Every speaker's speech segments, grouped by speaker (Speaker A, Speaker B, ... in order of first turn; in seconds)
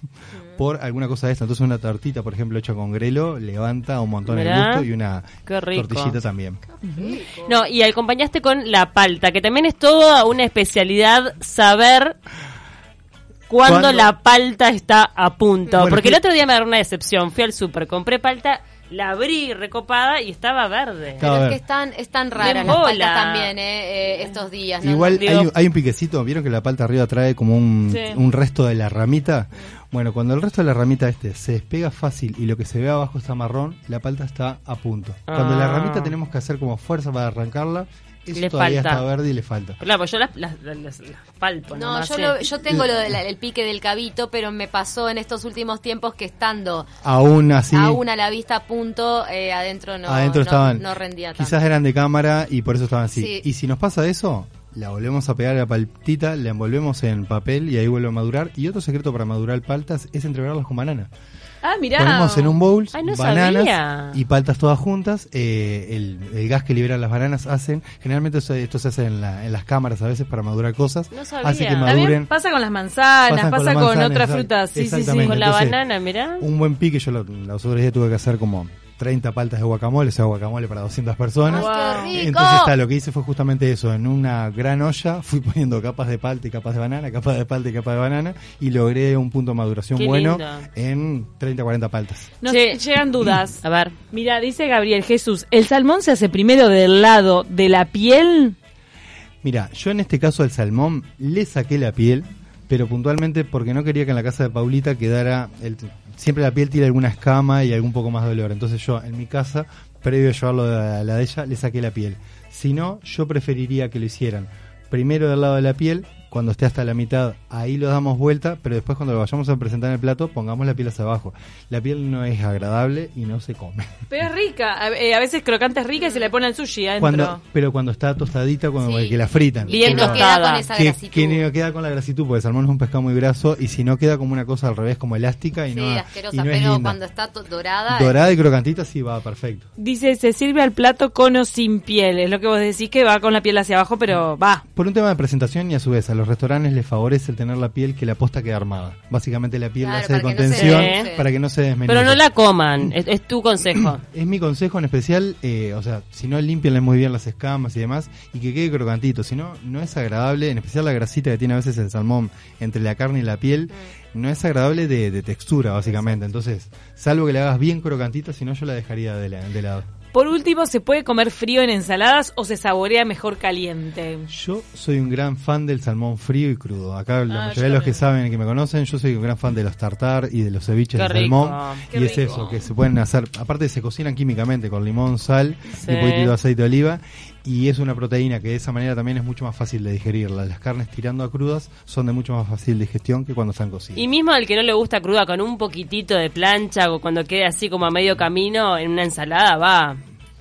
Speaker A: 0.6-6.6, 13.6-14.1, 15.8-16.2, 21.2-21.6, 24.8-39.8, 47.0-48.0, 50.0-61.1, 62.0-72.3, 73.3-75.8, 76.4-92.3, 99.4-123.9, 127.0-137.0, 137.9-139.7, 144.7-152.2, 154.1-169.9, 174.3-194.1
Speaker B: 4.3-4.9, 5.5-6.2, 7.5-12.2, 13.5-21.2, 22.4-23.5, 25.0-25.5, 35.3-36.1, 38.4-39.1, 39.8-42.4, 62.9-64.2, 71.1-72.0, 75.2-76.5, 90.0-90.7, 92.5-92.8, 93.6-94.0, 129.7-130.7, 150.5-151.1, 151.9-154.0, 180.9-181.9, 185.8-186.3, 194.0-200.0
Speaker C: 6.8-7.7, 21.2-25.2, 41.7-46.9, 47.7-51.6, 53.1-53.4, 81.5-82.8, 126.0-126.3, 128.8-131.4, 135.7-138.3, 149.8-151.3
Speaker D: 6.9-7.2, 27.9-28.2, 61.6-62.6, 71.8-75.4, 81.5-82.2, 92.4-93.6, 94.1-98.6, 124.1-127.4, 139.8-144.6, 170.1-174.3, 177.3-178.0, 181.9-182.6